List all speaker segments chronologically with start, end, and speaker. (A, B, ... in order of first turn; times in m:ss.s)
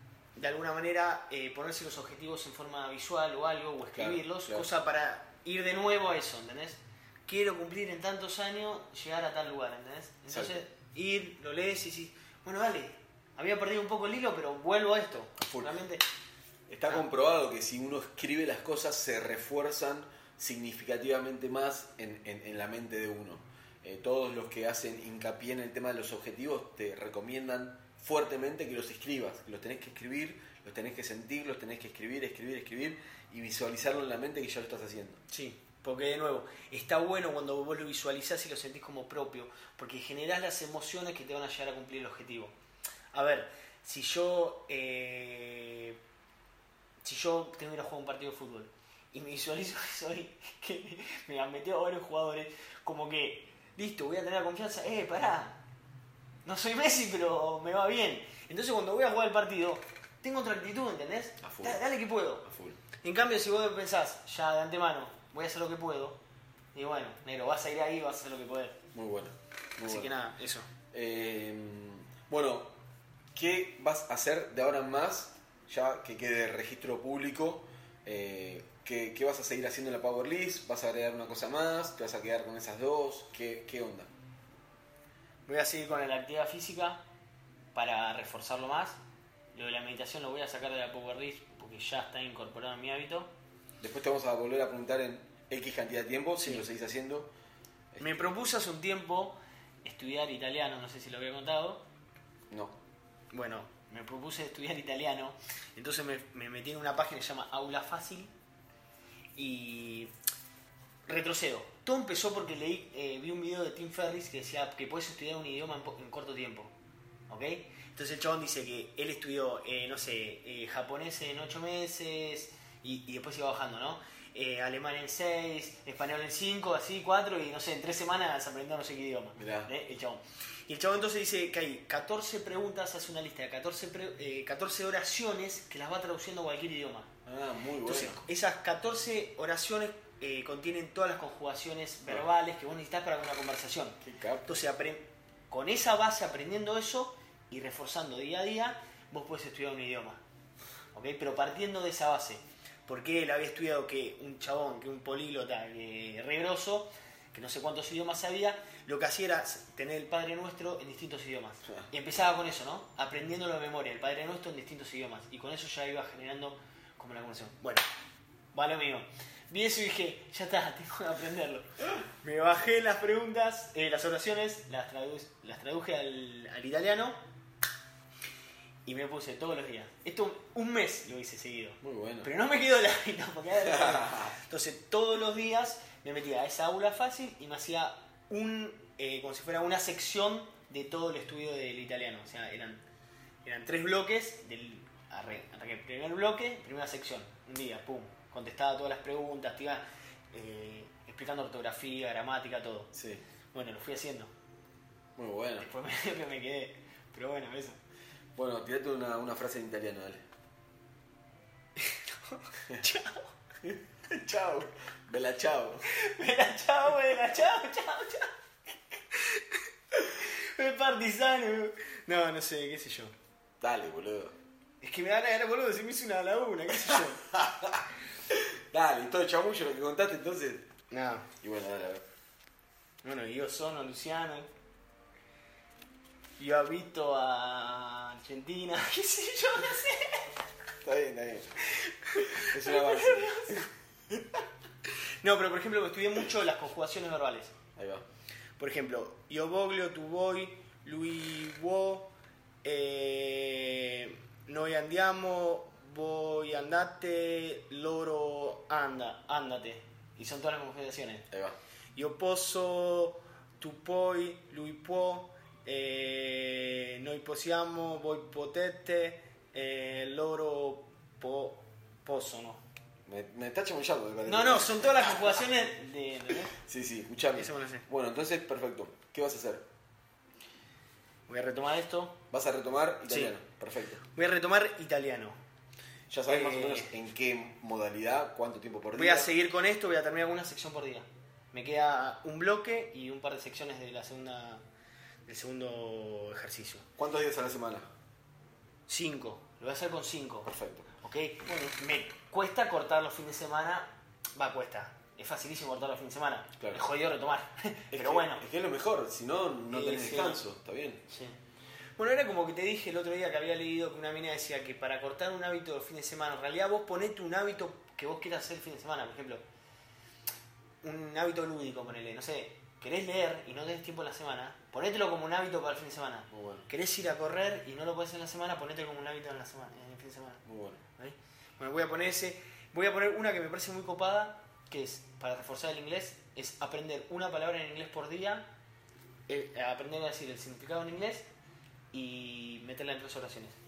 0:00.3-0:16.0 A
0:04.0-0:04.7 B
0:10.3-0:10.6 B
0:15.4-0:15.7 B
0:16.7-0:35.2 B
0:35.3-0:42.5 A
0:43.1-0:46.0 A
0:47.0-0:55.6 A
0:56.4-1:02.5 A
1:01.4-1:01.8 B
1:02.4-1:02.8 B
1:03.0-1:06.2 A
1:06.7-1:08.8 A
1:08.9-1:10.2 B
1:09.8-1:10.7 A
1:10.9-1:12.8 B
1:13.4-1:24.1 B
1:25.4-1:27.0 A
1:27.7-1:29.0 A
1:29.5-1:33.3 A
1:33.8-1:37.3 B
1:36.4-1:36.6 A
1:37.9-1:38.4 B
1:38.0-1:41.9 A
1:42.5-1:42.8 B
1:43.3-1:48.3 A
1:49.4-1:50.1 A
1:51.1-1:56.8 A
1:57.3-2:17.1 A
2:09.4-2:09.7 B
2:17.2-2:18.2 B
2:17.8-2:30.2 A
2:24.0-2:24.5 B
2:30.9-2:47.9 A
2:48.5-2:57.2 A
2:58.8-3:12.8 A
3:01.8-3:02.3 B
3:03.6-3:04.3 B
3:13.4-3:22.9 A
3:22.9-3:23.2 B
3:23.5-3:24.3 A
3:25.2-3:25.7 B
3:25.6-3:27.8 A
3:28.4-3:30.2 B
3:31.8-3:33.3 A
3:33.6-3:35.8 B
3:35.9-3:38.3 A
3:38.9-3:43.1 A
3:43.6-3:44.4 B
3:44.8-3:47.2 A
3:47.3-3:50.7 B
3:50.9-3:51.3 A
3:51.4-3:52.0 B
3:53.0-3:54.5 A
3:56.4-4:00.3 A
4:00.8-4:01.6 B
4:01.8-4:03.7 A
4:02.2-4:03.6 B
4:05.2-4:07.5 A
4:07.8-4:08.0 B
4:08.6-4:21.3 A
4:21.3-4:21.6 B
4:21.9-4:32.6 A
4:33.0-4:35.4 B
4:34.2-4:36.6 A
4:36.5-4:39.7 B
4:37.3-4:37.9 A
4:41.3-4:42.2 A
4:42.3-4:44.0 B
4:43.1-4:43.3 A
4:44.0-4:45.4 A
4:46.1-4:49.3 B
4:46.3-4:46.9 A
4:48.9-4:54.6 A
4:55.2-4:56.9 A
4:57.0-4:57.9 B
4:58.9-5:08.4 A
5:00.4-5:00.9 B
5:07.9-5:11.0 B
5:09.7-5:10.4 A
5:11.1-5:11.4 A
5:12.0-5:19.4 A
5:20.8-5:30.4 A
5:26.3-5:26.7 B
5:30.4-5:30.8 B
5:31.0-5:38.5 A
5:39.3-5:41.3 A
5:41.9-5:43.6 A